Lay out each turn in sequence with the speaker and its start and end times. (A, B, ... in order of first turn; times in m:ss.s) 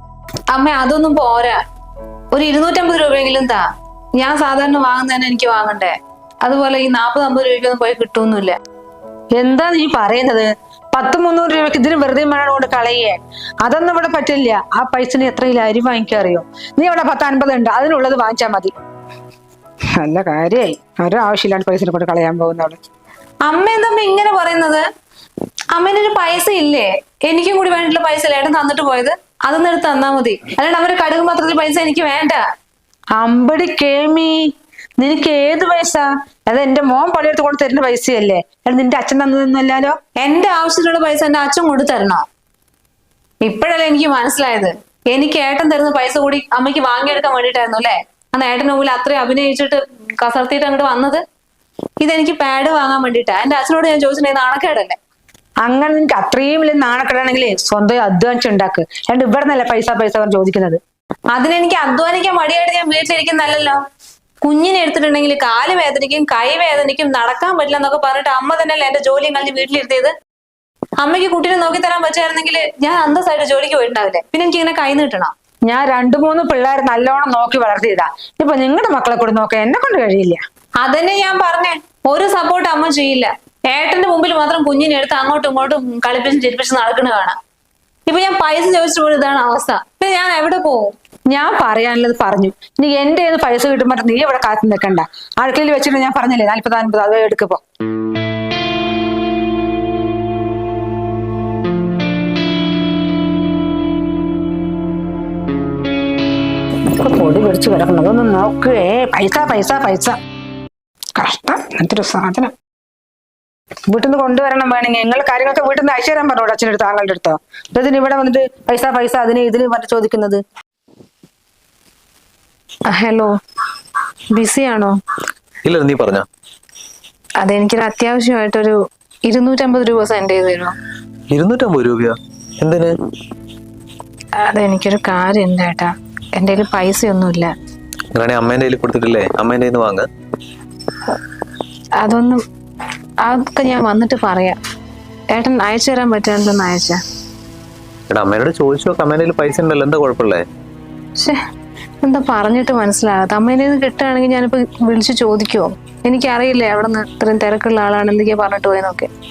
0:00.5-0:01.6 A
0:02.3-0:03.6 A
0:04.2-0:08.6 A
0:09.4-0:18.7 B
0:20.0-0:22.8 B
0:23.4-0:24.8 A
0:25.7-0:32.4 A
0:33.2-0:34.5 B
0:35.0-0:40.0 B
0:40.2-0:42.2 A
0:43.4-0:51.2 A
0:52.0-0:55.0 A
0:55.6-1:00.8 B
1:01.3-1:03.8 A
1:04.4-1:10.1 A
1:11.0-1:15.3 A
1:15.7-1:20.4 B
1:20.8-1:27.4 A
1:28.1-1:30.9 A
1:31.3-1:37.6 B
1:46.9-1:50.2 B
1:51.2-1:52.5 B
1:53.9-2:00.4 B
2:02.9-2:03.4 A
2:04.3-2:05.0 A
2:05.6-2:06.3 C
2:07.4-2:10.8 A
2:11.3-2:12.9 C
2:14.4-2:17.5 A
2:18.1-2:20.1 C
2:22.0-2:22.4 A
2:23.2-2:24.6 A
2:25.3-2:27.0 A
2:28.1-2:30.4 C
2:32.0-2:39.1 A